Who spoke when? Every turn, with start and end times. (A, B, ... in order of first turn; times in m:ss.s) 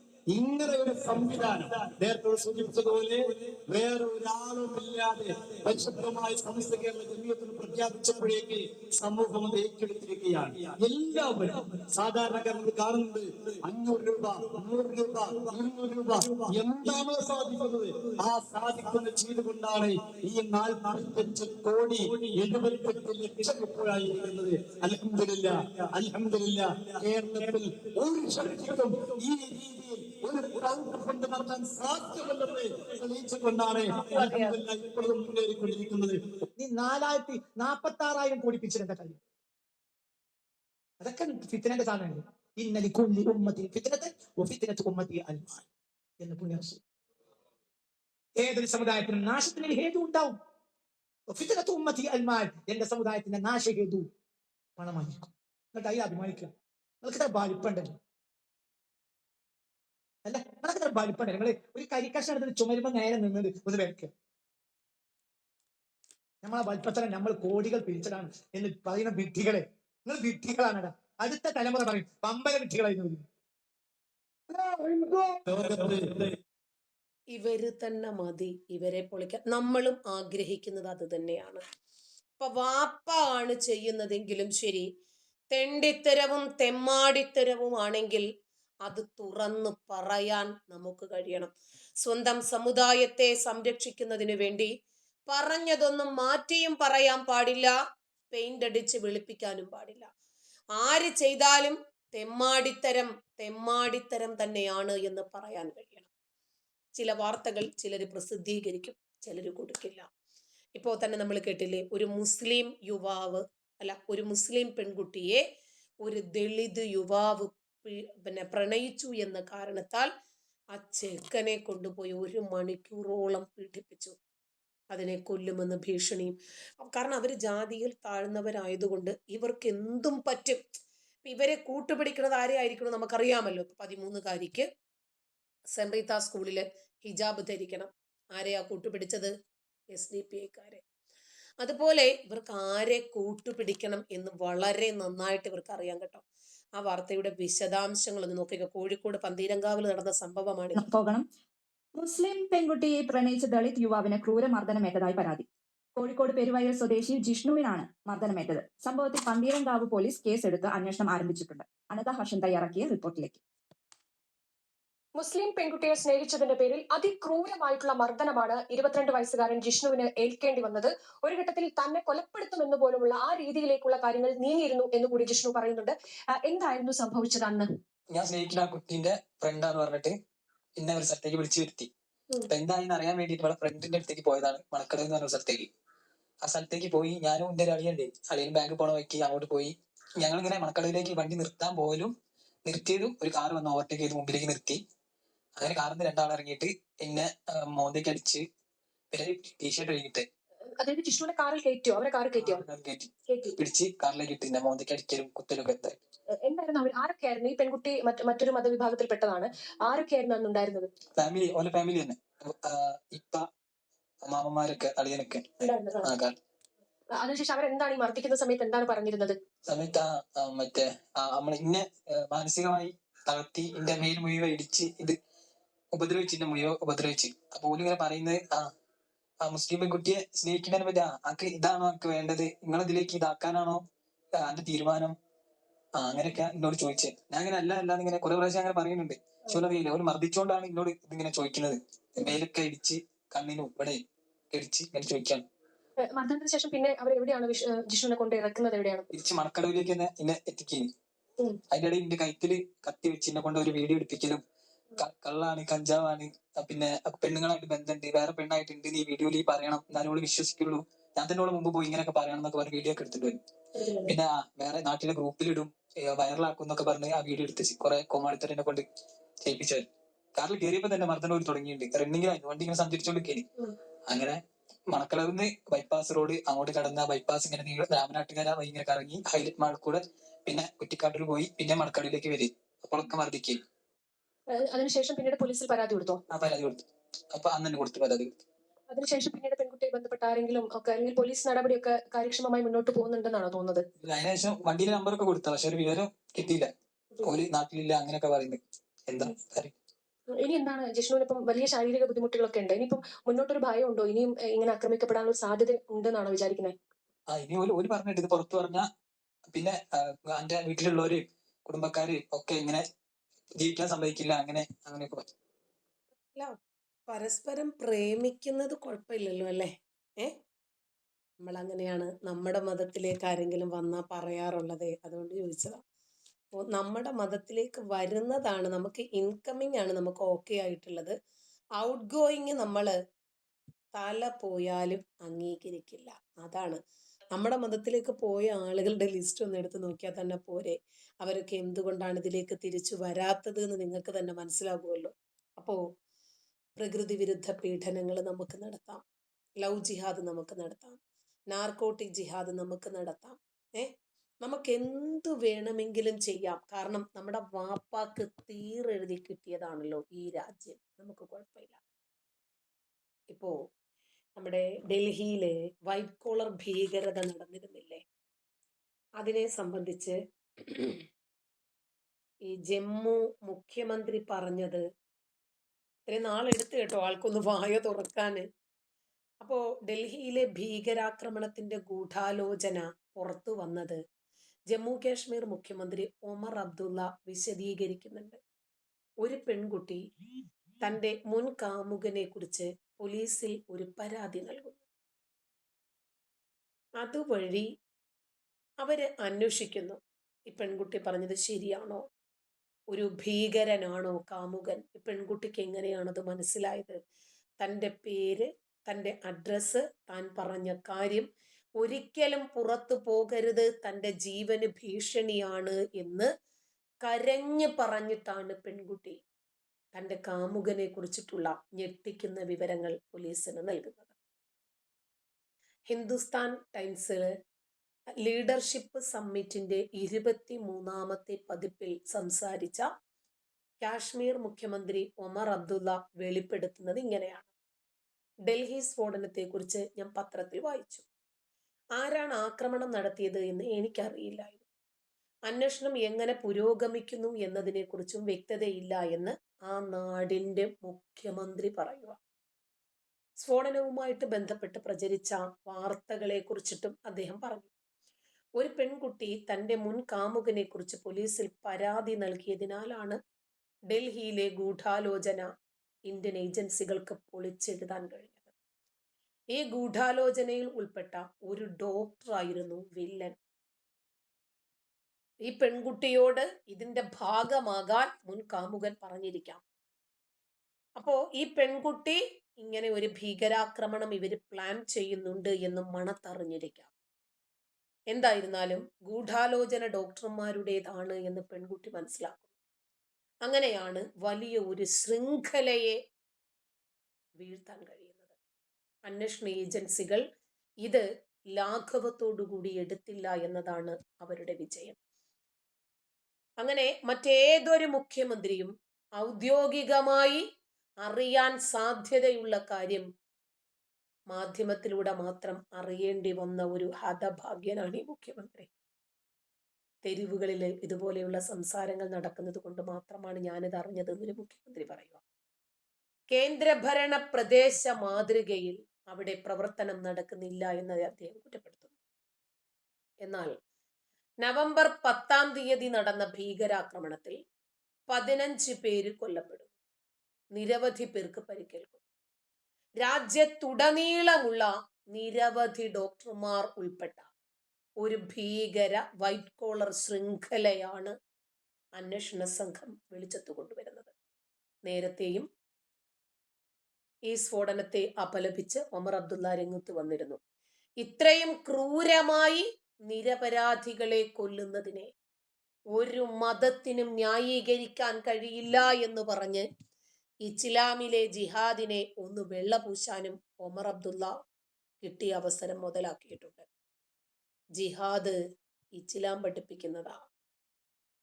0:00.3-0:36.2 A
0:34.0-0:34.5 B
0:36.6-0:39.2 B
0:41.0-0:45.6 B
0:46.2-0:46.8 B
0:48.4-0:50.4 B
0:51.3-0:54.1 B
0:54.8-0:56.5 B
0:57.0-0:57.9 B
1:00.2-1:04.1 B
1:06.4-1:13.2 B
1:14.7-1:15.9 B
1:15.4-1:16.1 A
1:17.3-1:21.6 C
1:22.4-1:24.9 C
1:25.5-1:28.2 C
1:28.8-1:34.7 C
1:35.3-1:37.7 C
1:38.3-1:40.1 C
1:40.8-1:46.1 C
1:47.0-1:50.1 C
1:50.8-1:55.4 C
1:56.0-2:00.1 C
2:00.7-2:04.1 C
2:04.9-2:10.6 C
2:11.2-2:14.7 C
2:15.7-2:19.3 C
2:19.9-2:20.8 C
2:21.6-2:26.2 C
2:26.8-2:30.8 C
2:30.7-2:31.2 D
2:32.0-2:35.4 D
2:36.0-2:43.4 D
2:45.2-2:57.7 E
2:58.1-3:00.2 F
3:00.8-3:01.9 F
3:02.5-3:05.7 F
3:06.4-3:12.1 F
3:12.6-3:14.8 F
3:15.6-3:18.4 F
3:19.1-3:20.2 F
3:20.8-3:22.6 E
3:22.4-3:26.0 F
3:23.3-3:23.6 E
3:26.4-3:30.9 E
3:31.2-3:33.5 F
3:34.2-3:36.3 F
3:35.6-3:36.1 E
3:37.2-3:39.4 E
3:39.7-3:45.2 F
3:45.9-3:48.7 F
3:49.4-3:53.8 F
3:54.4-3:55.1 F
3:56.0-4:04.0 F
4:04.5-4:05.4 F
4:06.0-4:09.1 E
4:09.1-4:10.9 F
4:11.7-4:14.4 F
4:15.0-4:23.4 F
4:23.7-4:24.1 E
4:24.0-4:28.8 F
4:29.4-4:29.8 F
4:30.4-4:33.5 F
4:34.1-4:43.6 F
4:44.5-4:46.2 E
4:46.3-4:46.8 F
4:47.3-4:48.4 F
4:48.9-4:53.8 E
4:54.0-4:56.7 F
4:57.2-4:59.7 F
5:00.4-5:06.7 E
5:07.3-5:08.8 F
5:09.5-5:12.8 F
5:13.6-5:15.2 F
5:17.1-5:20.3 C
5:21.4-5:25.8 C
5:26.6-5:31.1 C
5:31.8-5:32.9 C
5:34.0-5:36.8 C
5:37.3-5:45.8 C
5:46.8-5:49.0 C
5:49.6-5:51.0 C
5:51.5-5:53.9 C
5:54.4-6:01.8 C
6:04.4-6:08.0 C
6:09.2-6:11.0 C
6:12.4-6:14.8 C
6:16.1-6:18.4 C
6:19.4-6:24.0 C
6:24.7-6:28.4 C
6:29.2-6:30.0 C
6:30.8-6:34.8 C
6:37.0-6:37.7 C
6:38.8-6:42.0 C
6:42.9-6:47.0 C
6:47.6-6:51.3 C
6:51.8-6:56.3 C
6:57.0-6:59.2 C
6:59.9-7:04.1 C
7:05.9-7:07.3 C
7:08.2-7:12.9 C
7:13.8-7:17.5 C
7:18.4-7:21.0 C
7:22.0-7:24.6 C
7:25.5-7:32.2 C
7:33.4-7:37.7 C
7:38.6-7:43.2 C
7:43.9-7:45.5 C
7:46.1-7:48.5 C
7:49.5-7:53.4 C
7:55.4-7:59.6 C
8:01.0-8:06.9 C
8:08.1-8:12.5 C
8:13.4-8:16.0 C
8:17.4-8:18.3 C
8:19.1-8:20.2 C
8:21.6-8:25.0 C
8:26.6-8:30.4 C
8:31.0-8:33.0 C
8:34.3-8:38.7 C
8:40.0-8:45.2 C
8:46.3-8:51.9 C
8:53.2-8:53.6 C
8:54.4-8:57.4 C
8:58.1-8:59.7 C
9:00.5-9:02.0 C
9:03.0-9:07.2 C
9:08.0-9:11.1 C
9:12.0-9:14.1 C
9:14.8-9:15.5 C
9:17.3-9:20.4 C
9:21.0-9:25.1 C
9:25.9-9:29.7 C
9:30.4-9:34.3 C
9:35.0-9:36.6 C
9:37.8-9:38.4 C
9:39.0-9:40.2 C